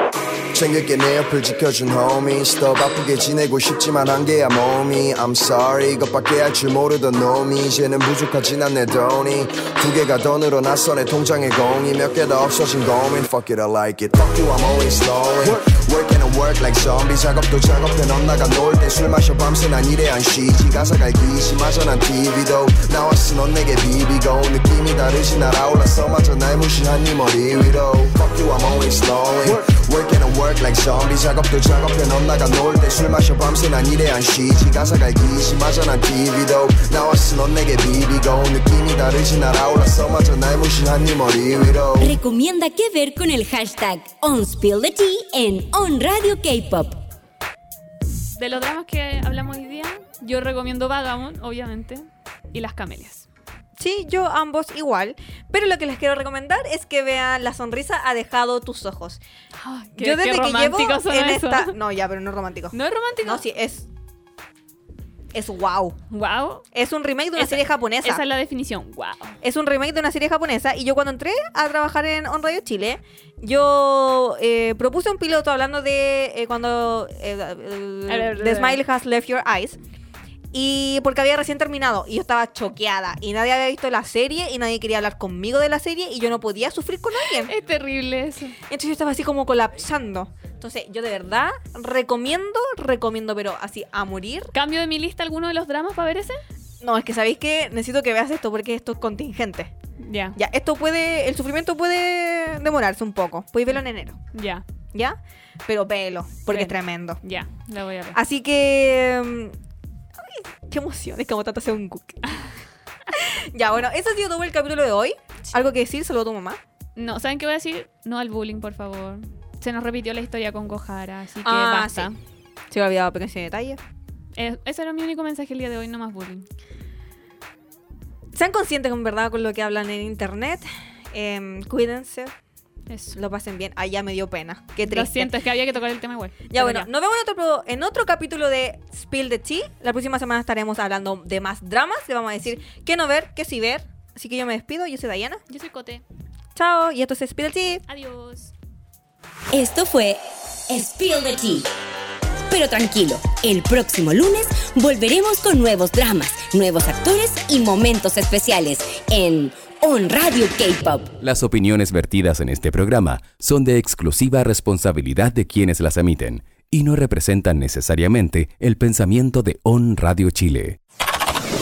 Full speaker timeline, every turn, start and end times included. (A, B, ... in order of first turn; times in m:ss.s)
0:00.6-0:42.1 A
0:42.0-0:47.0 B
0:48.4-0:53.3 C
0:53.8-0:59.2 D
0:59.6-1:01.7 C
1:00.0-1:03.9 D
1:02.7-1:03.4 C
1:05.3-1:06.0 D
1:06.1-1:06.6 C
1:06.7-1:08.2 D
1:07.4-1:09.4 C
1:09.4-1:19.8 D
1:18.1-1:18.8 C
1:20.5-1:27.5 D
1:27.2-1:28.6 C
1:28.7-1:34.5 D
1:34.5-1:36.4 C
1:36.8-1:39.7 D
1:40.0-1:40.4 C
1:40.3-1:44.2 D
1:44.3-1:44.6 C
1:44.9-1:47.2 D
1:46.5-1:48.2 C
1:48.1-1:49.6 D
1:50.2-1:52.2 D
1:53.1-1:56.6 D
1:57.0-2:02.2 C
2:01.4-2:02.1 D
2:02.7-2:03.8 D
2:04.4-2:06.5 C
2:08.3-2:12.3 D
2:12.9-2:13.2 C
2:13.1-2:15.3 D
2:14.8-2:16.9 C
2:16.5-2:25.4 D
2:25.5-2:26.0 C
2:26.5-2:27.8 D
2:27.9-2:28.5 C
2:29.5-2:31.7 B
2:32.5-2:41.1 B
2:41.2-2:50.8 E